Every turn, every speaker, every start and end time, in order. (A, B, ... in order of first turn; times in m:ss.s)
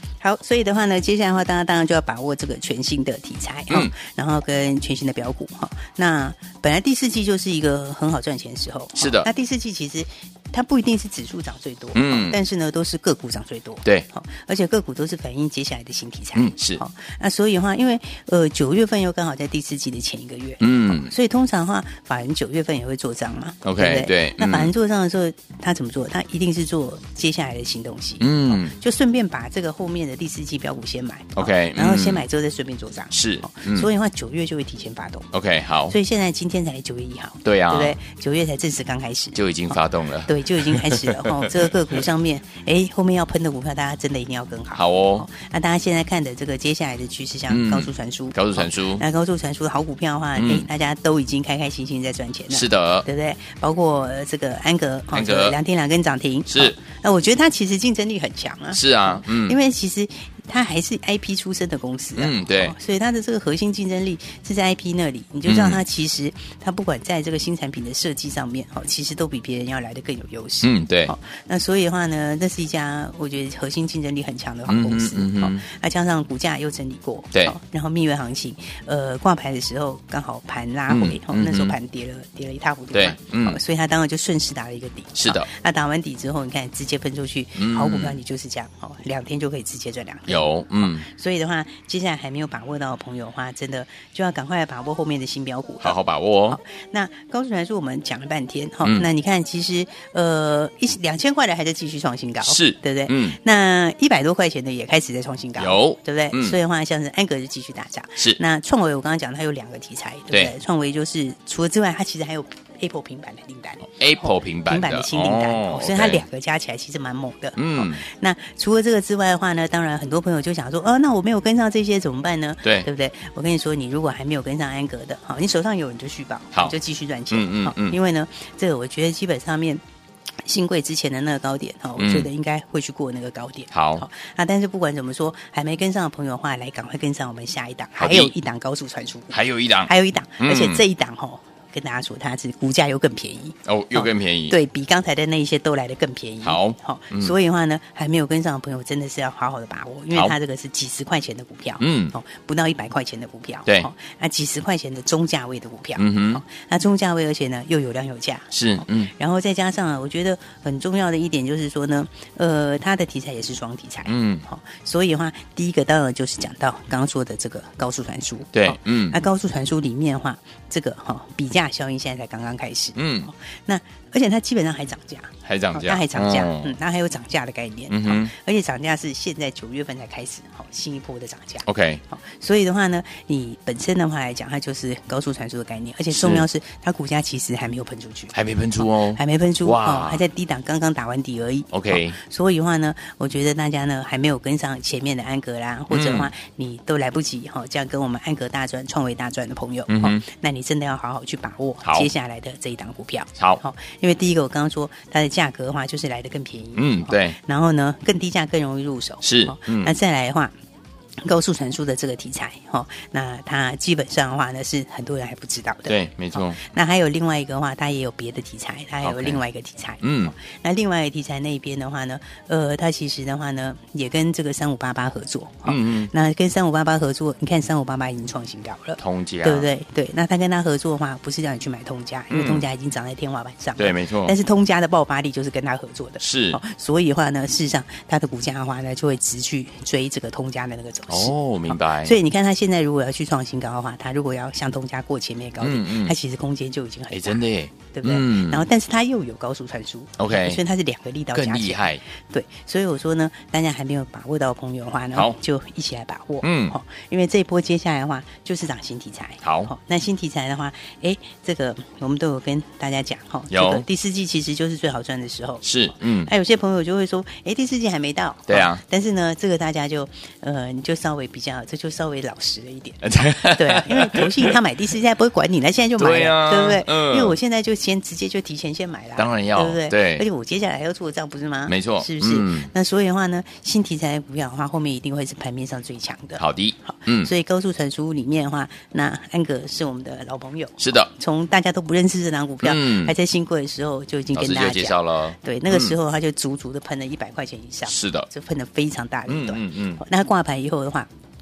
0:00.2-0:35.3 A
0:09.0-0:09.3 B
0:11.9-0:12.4 B
0:16.3-0:16.8 B
0:20.6-0:21.1 B
0:23.6-0:24.7 B
0:28.2-0:28.7 B
0:31.4-0:32.2 B
0:33.1-0:33.9 B
0:35.3-0:36.0 B
0:35.9-1:36.0 A
0:37.4-0:38.0 B
0:39.3-0:41.4 B
0:44.7-0:45.2 B
0:47.5-0:49.0 B
0:50.4-0:50.7 B
0:52.5-0:53.1 B
0:55.1-0:55.6 B
0:56.5-0:56.8 B
0:58.7-0:59.6 B
1:02.2-1:02.7 B
1:05.4-1:05.8 B
1:10.6-1:11.1 B
1:14.7-1:15.6 B
1:20.9-1:21.7 B
1:22.9-1:23.6 B
1:25.2-1:25.5 B
1:27.6-1:28.2 B
1:30.3-1:31.0 B
1:35.8-1:36.6 B
1:36.5-2:09.8 A
1:42.4-1:43.4 B
1:45.6-1:46.6 B
1:54.0-1:56.2 B
1:57.6-1:58.0 B
2:02.6-2:02.9 B
2:07.3-2:08.0 B
2:10.4-3:30.5 A
2:12.0-2:12.3 B
2:13.7-2:14.0 B
2:18.0-2:18.3 B
2:19.3-2:20.8 B
2:23.6-2:24.6 B
2:26.4-2:27.3 B
2:31.8-2:32.1 B
2:36.0-2:36.4 B
2:38.5-2:39.1 B
2:44.1-2:44.4 B
2:48.5-2:49.2 B
2:53.0-2:53.3 B
2:55.4-2:56.7 B
2:57.9-2:58.3 B
3:01.6-3:02.0 B
3:06.1-3:06.4 B
3:08.3-3:10.2 B
3:11.7-3:12.2 B
3:15.9-3:16.3 B
3:19.9-3:20.2 B
3:21.8-3:22.1 B
3:26.8-3:27.4 B
3:29.2-3:29.9 B
3:31.2-4:25.6 A
3:35.9-3:36.6 B
3:39.0-3:39.4 B
3:40.0-3:40.3 B
3:45.6-3:46.1 B
3:49.0-3:49.7 B
3:52.3-3:52.6 B
3:53.8-3:54.3 B
3:56.2-3:56.6 B
4:01.1-4:02.1 B
4:05.6-4:06.1 B
4:07.1-4:08.6 B
4:10.2-4:10.6 B
4:11.3-4:12.0 B
4:16.4-4:16.8 B
4:19.4-4:19.7 B
4:23.5-4:23.8 B
4:25.6-4:26.3 B
4:26.2-5:01.1 A
4:28.5-4:28.8 B
4:33.0-4:34.5 B
4:36.0-4:37.4 B
4:39.2-4:40.2 B
4:41.7-4:42.7 B
4:46.4-4:47.3 B
4:50.8-4:51.1 B
4:52.6-4:53.1 B
4:54.3-4:55.9 B
4:57.8-4:58.3 B
4:59.3-5:00.0 B